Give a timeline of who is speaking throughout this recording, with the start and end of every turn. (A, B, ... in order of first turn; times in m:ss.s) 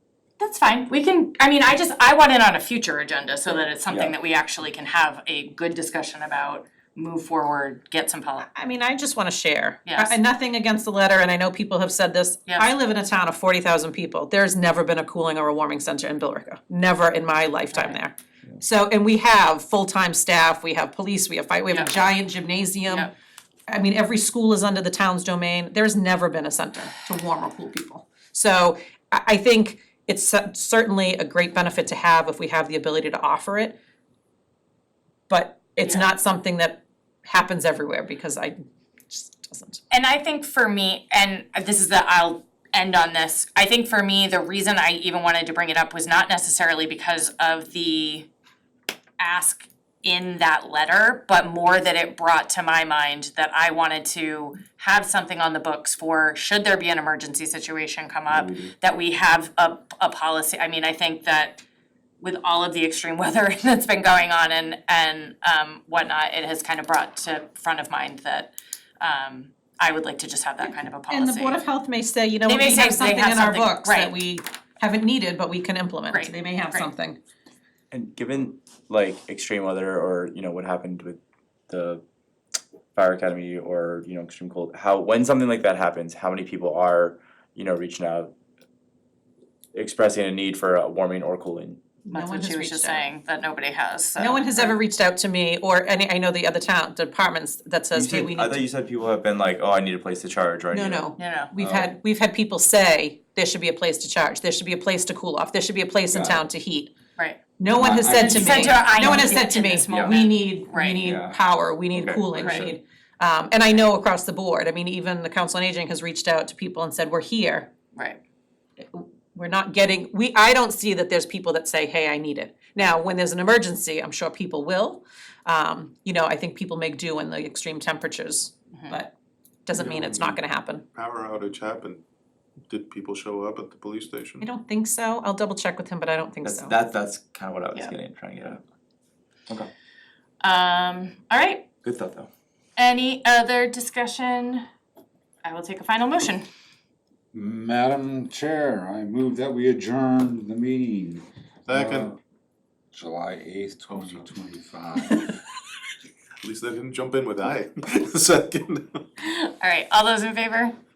0:00.4-0:08.5 A
0:03.9-0:04.1 B
0:08.5-0:23.1 C
0:09.9-0:10.2 A
0:17.7-0:18.0 A
0:21.7-0:22.1 A
0:22.8-0:23.1 A
0:23.7-0:33.8 C
0:35.3-0:38.6 C
0:35.8-0:36.1 A
0:39.1-0:39.8 C
0:39.9-0:48.3 A
0:49.2-1:01.6 A
0:58.3-0:58.7 B
1:02.2-1:11.6 A
1:10.6-1:17.2 C
1:12.5-1:14.2 A
1:16.1-1:16.9 A
1:17.9-1:22.0 B
1:23.0-1:28.3 B
1:29.7-1:31.8 B
1:32.1-1:33.1 C
1:32.1-1:34.8 A
1:34.2-1:38.6 C
1:37.9-1:41.9 B
1:40.7-1:46.9 C
1:41.2-1:41.5 A
1:46.1-1:46.4 B
1:47.6-1:57.7 C
1:47.7-1:49.4 D
1:48.0-1:51.1 A
1:49.9-1:50.2 B
1:51.0-1:51.4 B
1:51.9-1:52.8 B
1:52.4-1:52.7 A
1:58.0-1:58.2 A
1:58.8-2:09.1 C
2:08.7-2:09.0 A
2:09.7-2:10.9 C
2:09.7-2:10.4 E
2:11.0-2:12.0 E
2:12.7-2:14.5 E
2:14.4-2:16.8 C
2:16.4-2:18.6 B
2:20.4-2:21.7 A
2:21.8-2:22.3 B
2:22.8-2:24.7 A
2:25.4-2:26.5 A
2:27.3-2:32.1 D
2:31.7-2:32.1 E
2:32.9-2:35.3 D
2:33.9-2:34.3 E
2:36.4-2:39.0 E
2:39.2-2:40.8 A